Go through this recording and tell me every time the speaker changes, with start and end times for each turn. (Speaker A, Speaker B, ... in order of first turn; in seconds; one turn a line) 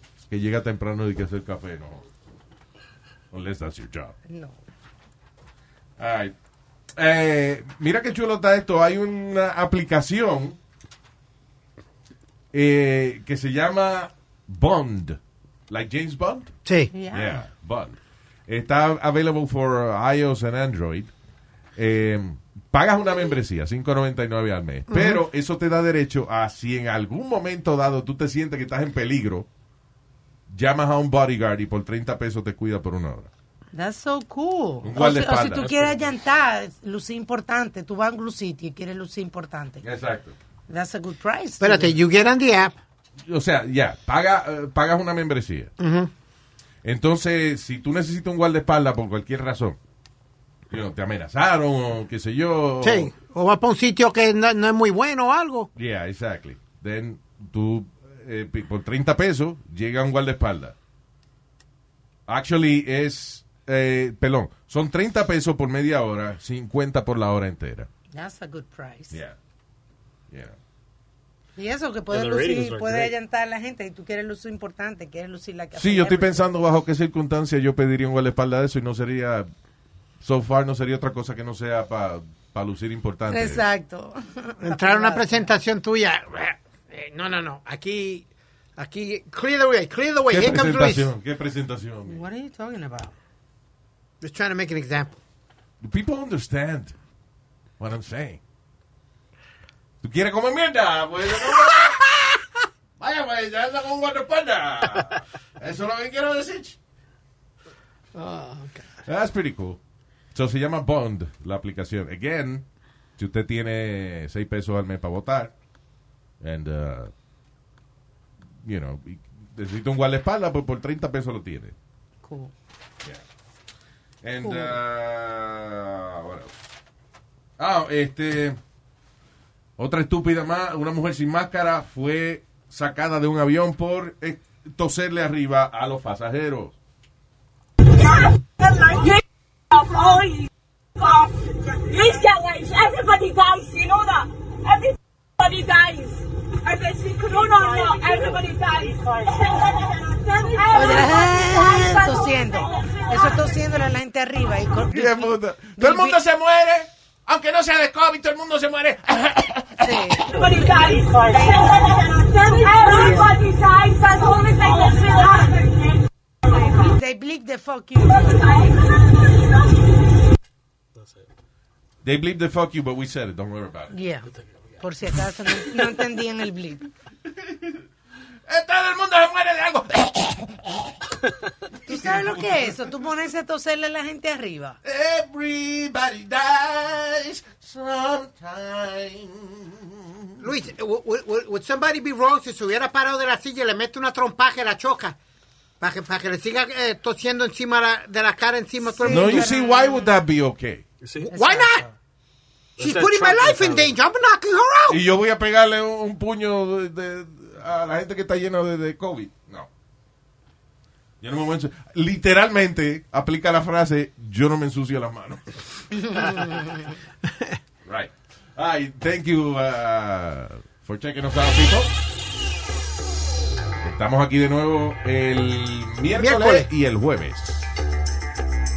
Speaker A: 0.3-2.0
Speaker A: 3.3-4.2
Speaker B: 4.3-4.6
Speaker A: 6.0-6.3
Speaker A: 7.0-10.6
Speaker A: 12.5-16.5
Speaker C: 16.7-16.9
Speaker B: 16.9-17.4
Speaker A: 17.1-21.1
Speaker A: 21.8-29.5
Speaker C: 24.9-25.2
Speaker A: 30.5-33.3
Speaker B: 33.7-39.8
Speaker A: 34.8-35.7
Speaker D: 35.6-36.1
Speaker A: 39.8-40.4
Speaker B: 40.7-42.0
Speaker C: 41.6-42.8
Speaker A: 43.3-45.7
Speaker C: 45.8-46.1
Speaker A: 46.8-49.8
Speaker A: 50.7-53.1
Speaker C: 52.8-55.7
Speaker A: 55.8-60.8
Speaker A: 62.3-67.9
Speaker B: 68.1-69.2
Speaker A: 69.1-69.4
Speaker A: 70.3-70.6
Speaker B: 71.6-76.4
Speaker D: 72.1-73.1
Speaker A: 75.8-79.5
Speaker A: 80.2-83.6
Speaker B: 83.3-85.5
Speaker C: 84.6-88.3
Speaker C: 88.8-91.1
Speaker A: 90.3-92.2
Speaker B: 92.1-93.2
Speaker C: 94.2-95.2
Speaker A: 95.8-97.0
Speaker A: 97.8-98.4
Speaker A: 100.0-102.4
Speaker A: 103.0-106.8
Speaker C: 108.2-108.9
Speaker A: 109.0-109.8
Speaker A: 110.3-112.7
Speaker A: 113.2-115.5
Speaker A: 116.4-117.1
Speaker A: 118.6-121.8
Speaker B: 122.2-122.5
Speaker A: 124.2-126.5
Speaker B: 124.4-124.8
Speaker A: 127.6-128.6
Speaker A: 129.8-136.8
Speaker E: 138.0-139.2
Speaker E: 139.7-140.5
Speaker E: 141.0-153.4
Speaker B: 150.7-156.2
Speaker A: 154.9-160.2
Speaker B: 159.8-161.7
Speaker E: 160.3-166.8
Speaker B: 166.5-168.5
Speaker E: 168.0-170.0
Speaker D: 170.9-171.3
Speaker A: 172.0-173.9
Speaker B: 173.9-176.9
Speaker D: 174.3-174.8
Speaker A: 177.3-177.8
Speaker A: 178.5-181.1
Speaker A: 181.9-182.9
Speaker B: 181.9-184.8
Speaker A: 184.8-190.5
Speaker C: 190.4-195.2
Speaker C: 195.8-199.5
Speaker B: 198.9-200.1
Speaker A: 199.1-200.8
Speaker D: 201.0-201.3
Speaker C: 201.2-201.9
Speaker B: 201.3-201.9
Speaker D: 202.8-203.9
Speaker C: 202.8-205.0
Speaker A: 204.9-209.7
Speaker A: 211.2-215.6
Speaker B: 216.1-216.7
Speaker A: 217.8-221.9
Speaker A: 223.8-227.7
Speaker C: 226.2-226.7